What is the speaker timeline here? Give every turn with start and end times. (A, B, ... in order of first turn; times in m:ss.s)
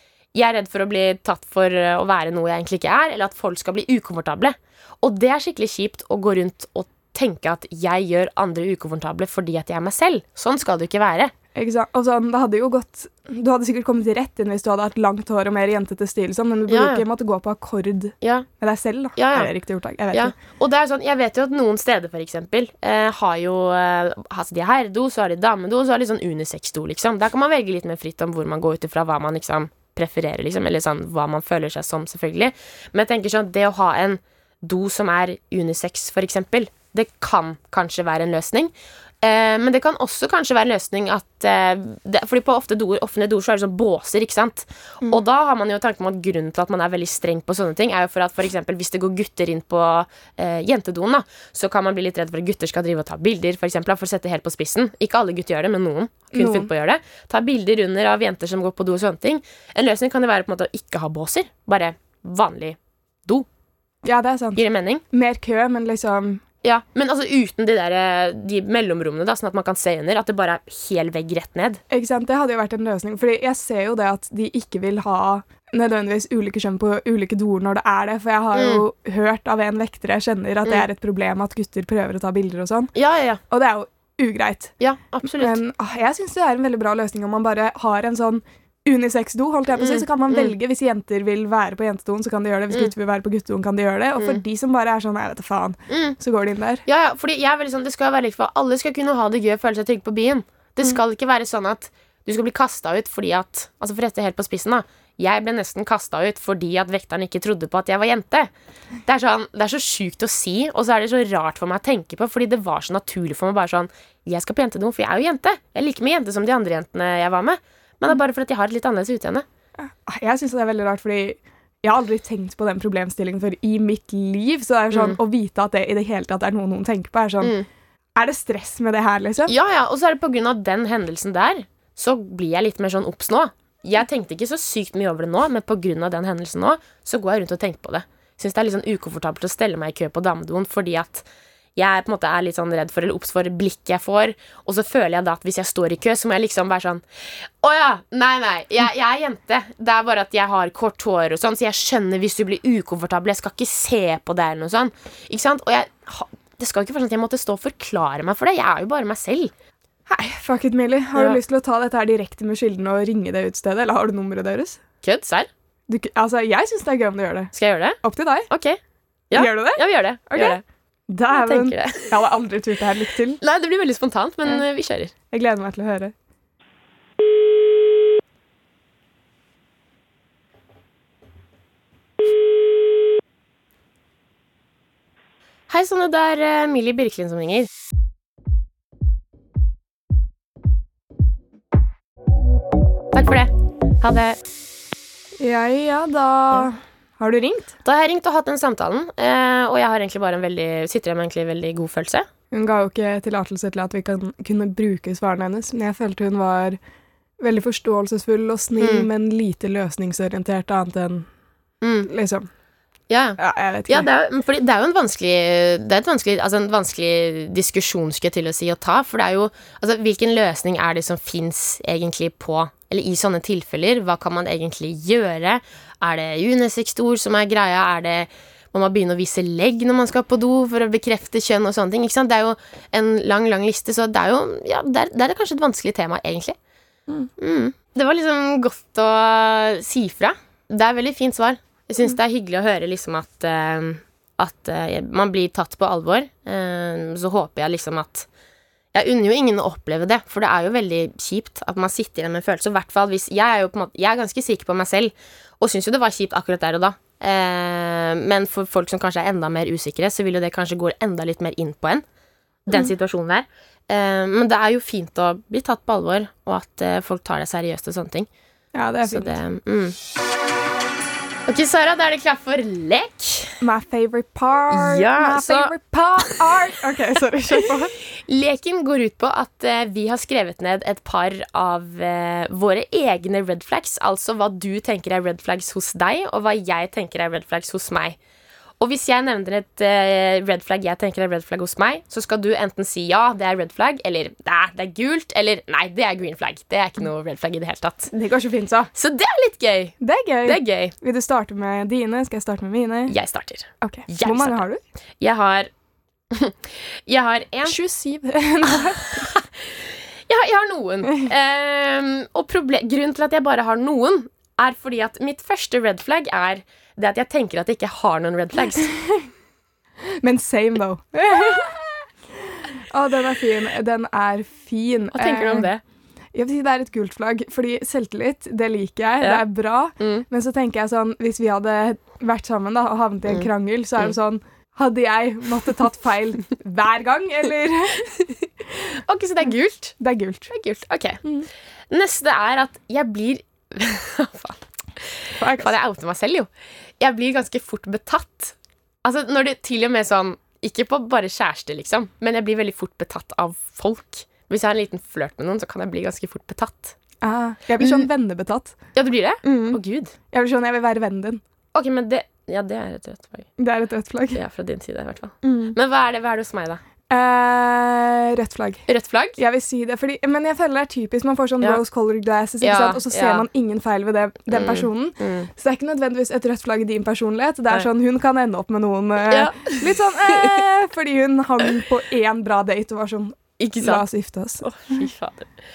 0:00.3-0:11.3 A
0:11.5-0:20.3 B
0:16.7-0:17.0 A
0:18.2-0:18.5 A
0:19.2-0:19.5 A
0:20.1-1:03.4 A
0:56.3-0:56.7 B
1:04.0-1:06.4 B
1:04.5-1:05.0 A
1:06.6-1:11.8 A
1:11.9-1:22.9 B
1:18.5-1:18.8 A
1:22.9-1:23.4 A
1:23.5-1:24.7 B
1:24.8-1:25.6 A
1:25.2-1:36.8 B
1:29.8-1:30.5 A
1:35.9-1:36.2 A
1:36.8-1:48.5 A
1:49.0-1:59.4 A
1:59.8-2:07.5 B
2:04.9-2:05.2 A
2:07.4-2:07.6 A
2:08.2-2:09.5 B
2:09.4-2:27.0 A
2:27.6-2:39.5 A
2:40.1-2:44.8 B
2:45.0-2:45.5 A
2:45.9-2:48.5 B
2:47.5-2:48.8 A
2:49.3-2:50.6 A
2:49.3-2:53.4 B
2:51.3-2:52.1 A
2:53.4-2:55.1 A
2:55.3-2:56.1 B
3:05.7-3:07.7 A
3:13.1-3:14.4 A
3:15.4-3:17.7 B
3:17.8-3:22.3 A
3:22.5-3:26.8 B
3:27.4-3:31.3 B
3:28.8-3:29.1 A
3:31.8-3:32.1 A
3:32.0-3:32.5 B
3:33.1-3:56.6 A
3:33.4-3:34.1 B
3:57.4-4:08.3 A
4:08.9-4:22.0 A
4:22.7-4:28.3 A
4:28.7-4:29.4 B
4:29.0-4:29.9 A
4:31.5-4:33.6 A
4:33.6-4:37.9 B
4:34.7-4:35.7 A
4:38.2-4:48.2 A
4:48.8-4:58.1 A
4:58.1-4:58.9 B
4:58.9-5:00.9 A
5:00.0-5:03.1 B
5:03.1-5:04.6 A
5:03.8-5:04.8 B
5:05.2-5:05.7 A
5:06.3-5:07.8 A
5:07.6-5:09.3 B
5:09.2-5:09.7 A
5:10.3-5:18.9 A
5:20.2-5:25.7 B
5:25.1-5:25.8 A
5:26.3-5:38.2 B
5:38.9-5:40.0 A
5:40.0-5:40.5 B
5:40.5-5:41.2 A
5:41.9-5:44.6 A
5:45.4-5:45.8 B
5:45.6-5:46.5 A
5:47.0-5:57.0 A
5:57.2-5:58.8 B
5:58.9-6:00.1 A
5:59.4-5:59.8 B
6:00.3-6:01.4 B
6:01.7-6:03.5 A
6:03.6-6:04.4 B
6:04.3-6:06.8 A
6:05.4-6:05.8 B
6:07.1-6:08.8 B
6:08.9-6:09.4 A
6:09.4-6:24.6 B
6:12.6-6:13.4 A
6:14.5-6:15.5 A
6:19.3-6:20.5 A
6:23.6-6:24.0 A
6:24.6-6:25.5 A